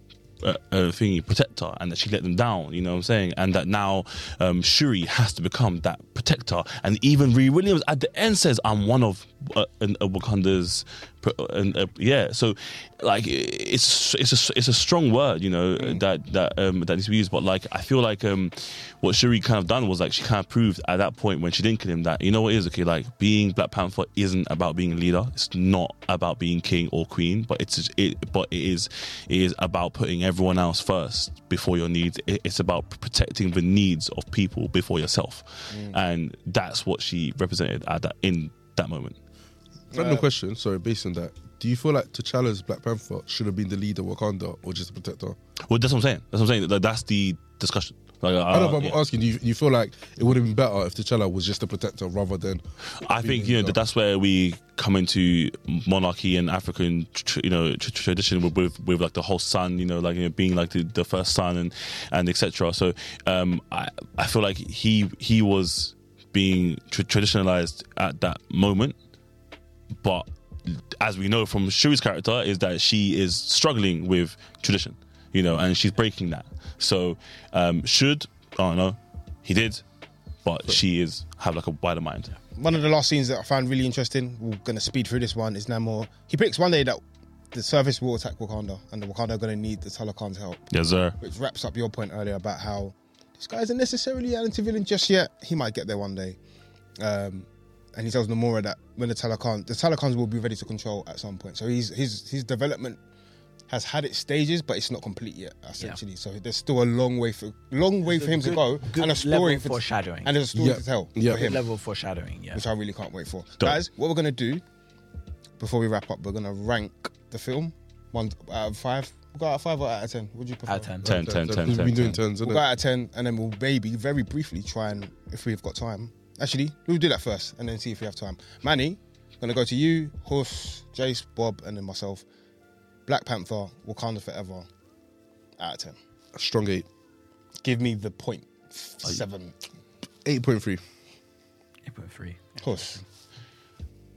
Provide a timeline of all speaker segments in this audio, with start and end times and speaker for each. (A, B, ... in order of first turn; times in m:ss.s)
0:00.4-0:39.2 A
0:35.7-0:36.0 B
0:39.9-0:40.3 B
0:40.0-0:45.4 C
0:45.7-0:49.0 A
0:48.5-0:52.6 C
0:53.0-1:09.0 A
0:53.2-0:53.8 C
1:10.0-1:19.8 A
1:20.4-1:22.3 A
1:22.6-1:27.0 B
1:27.5-1:30.7 B
1:30.7-1:31.2 A
1:31.2-1:36.4 B
1:37.0-1:43.0 B
1:43.7-1:51.6 B
1:48.0-1:50.4 D
1:50.6-1:51.5 C
1:51.3-1:52.6 D
1:52.5-1:54.6 B
1:55.6-2:01.0 B
2:00.7-2:02.1 D
2:01.0-2:02.6 C
2:01.0-2:02.2 A
2:02.4-2:12.2 B
2:13.1-2:14.7 B
2:15.6-2:16.0 B
2:16.4-2:16.9 C
2:17.6-2:19.6 B
2:20.2-2:20.8 C
2:21.8-2:23.0 D
2:22.6-2:23.0 B